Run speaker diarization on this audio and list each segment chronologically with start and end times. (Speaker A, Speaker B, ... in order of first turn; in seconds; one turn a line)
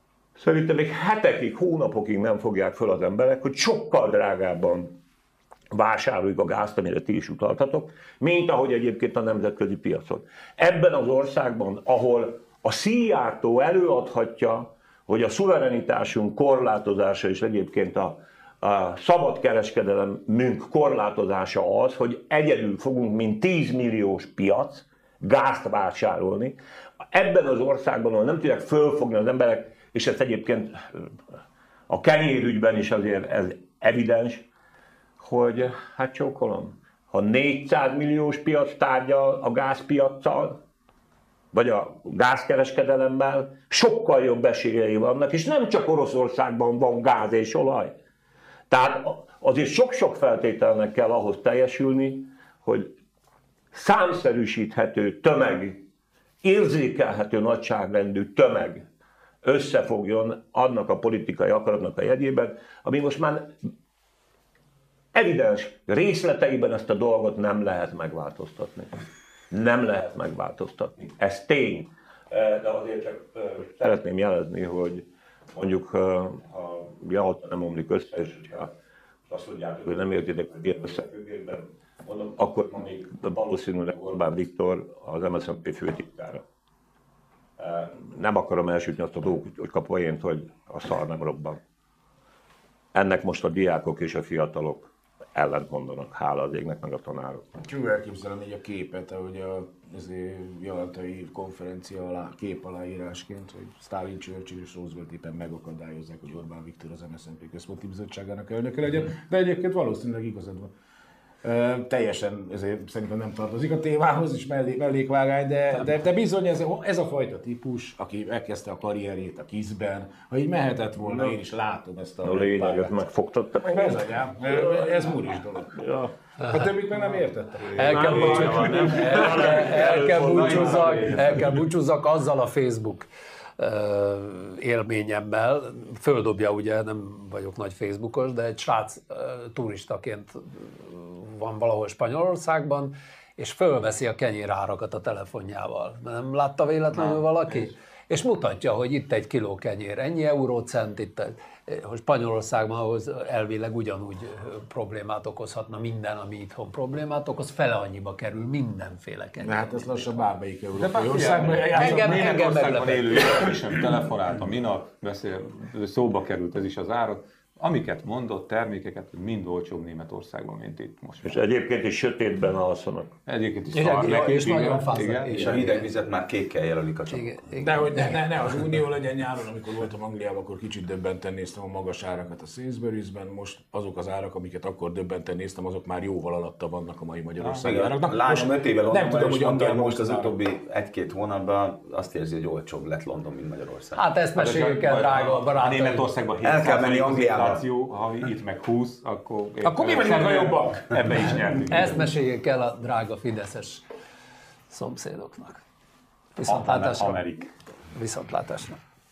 Speaker A: 0.3-5.0
Speaker A: 5.7-26.6
Speaker A: 27.1-31.1
Speaker A: 31.9-34.4
Speaker A: 35.2-40.6
Speaker A: 41.5-47.9
Speaker A: 48.7-52.9
Speaker A: 53.7-55.8
Speaker A: 56.4-58.8
Speaker A: 59.4-63.6
Speaker A: 65.1-69.0
Speaker A: 69.5-78.7
Speaker A: 79.3-86.4
Speaker A: 87.6-91.6
Speaker A: 92.9-97.5
Speaker B: 97.6-110.7
Speaker B: 111.4-122.9
Speaker A: 121.0-121.3
Speaker A: 122.2-125.1
Speaker B: 123.6-125.9
Speaker A: 125.7-126.1
Speaker C: 126.4-126.7
Speaker B: 126.4-129.3
Speaker C: 127.7-133.1
Speaker D: 127.8-131.6
Speaker A: 128.8-131.2
Speaker C: 133.6-160.2
Speaker B: 159.4-162.3
Speaker D: 160.8-171.4
Speaker C: 161.7-163.5
Speaker A: 171.2-173.1
Speaker D: 173.2-175.6
Speaker C: 173.7-175.9
Speaker E: 175.3-177.8
Speaker C: 177.1-178.2
Speaker B: 177.6-190.3
Speaker E: 187.6-194.0
Speaker C: 193.9-196.1
Speaker D: 194.3-202.1
Speaker E: 196.4-197.6
Speaker B: 199.6-201.6
Speaker C: 201.7-203.8
Speaker C: 204.7-205.6
Speaker C: 206.3-207.2
Speaker D: 206.4-207.5
Speaker C: 207.9-208.8